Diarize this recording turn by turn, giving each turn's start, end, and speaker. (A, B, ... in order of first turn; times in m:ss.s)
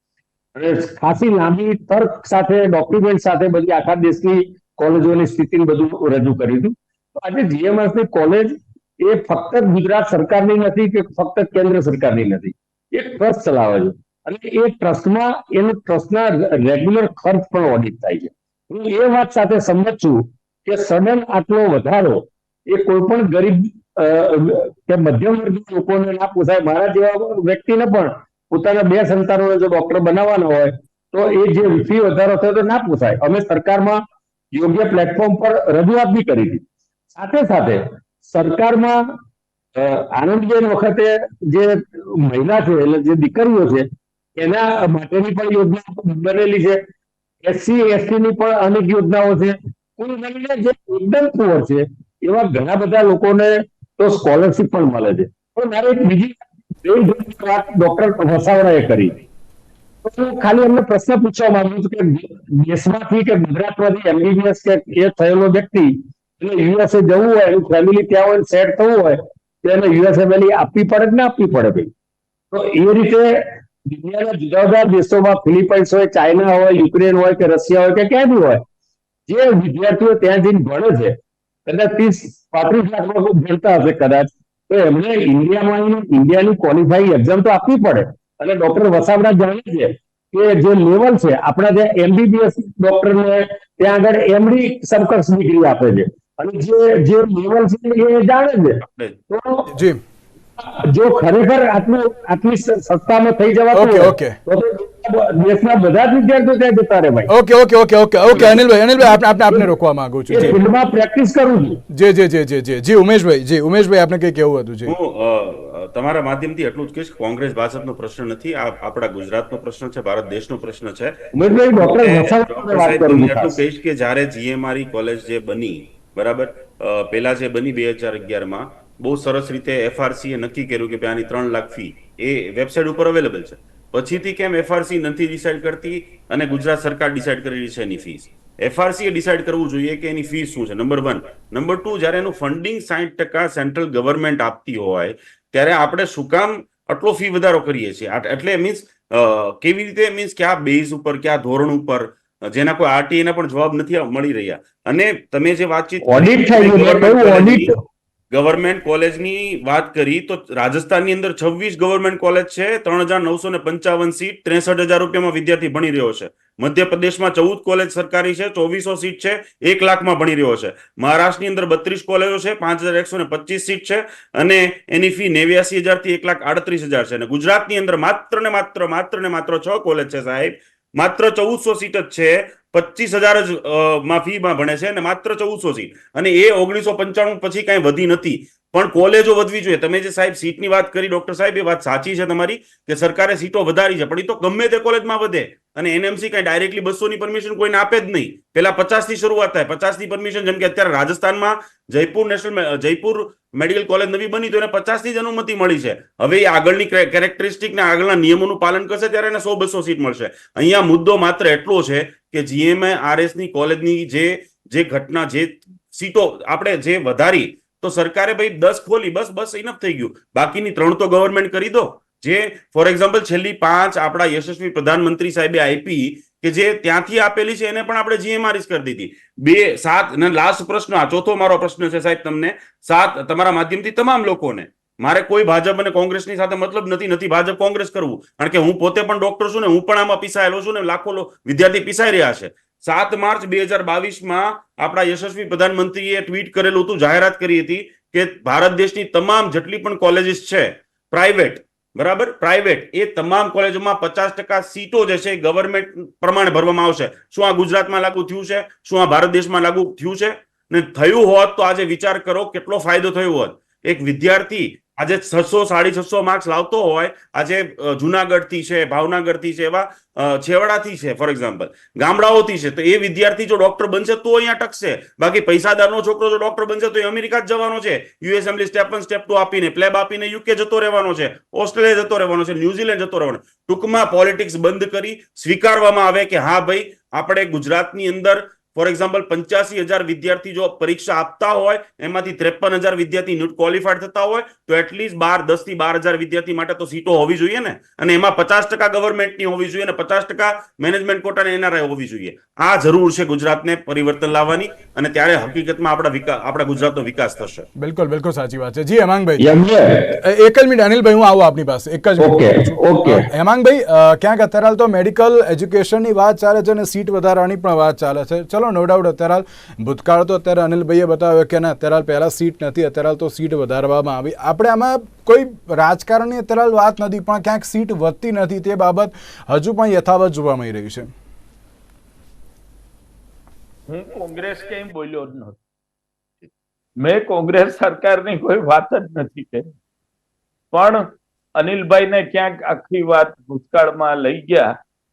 0:00.6-0:39.1 A
0:39.8-0:46.8 A
0:47.4-0:59.2 A
1:00.0-1:11.9 A
1:12.5-1:18.6 A
1:19.3-1:39.8 A
1:38.9-1:39.2 B
1:39.7-1:40.0 C
1:40.6-1:47.3 A
1:43.7-1:44.4 C
1:47.3-1:50.6 C
1:50.3-1:51.8 A
1:51.9-1:54.9 C
1:54.9-2:01.2 B
2:01.3-2:03.6 A
2:01.8-2:37.7 B
2:36.0-2:37.8 A
2:38.3-5:07.7 B
5:07.8-5:31.1 C
5:09.4-5:10.2 A
5:12.2-5:13.3 A
5:33.9-5:35.6 D
5:37.0-5:39.7 D
5:40.7-5:41.1 D
5:41.6-5:44.7 D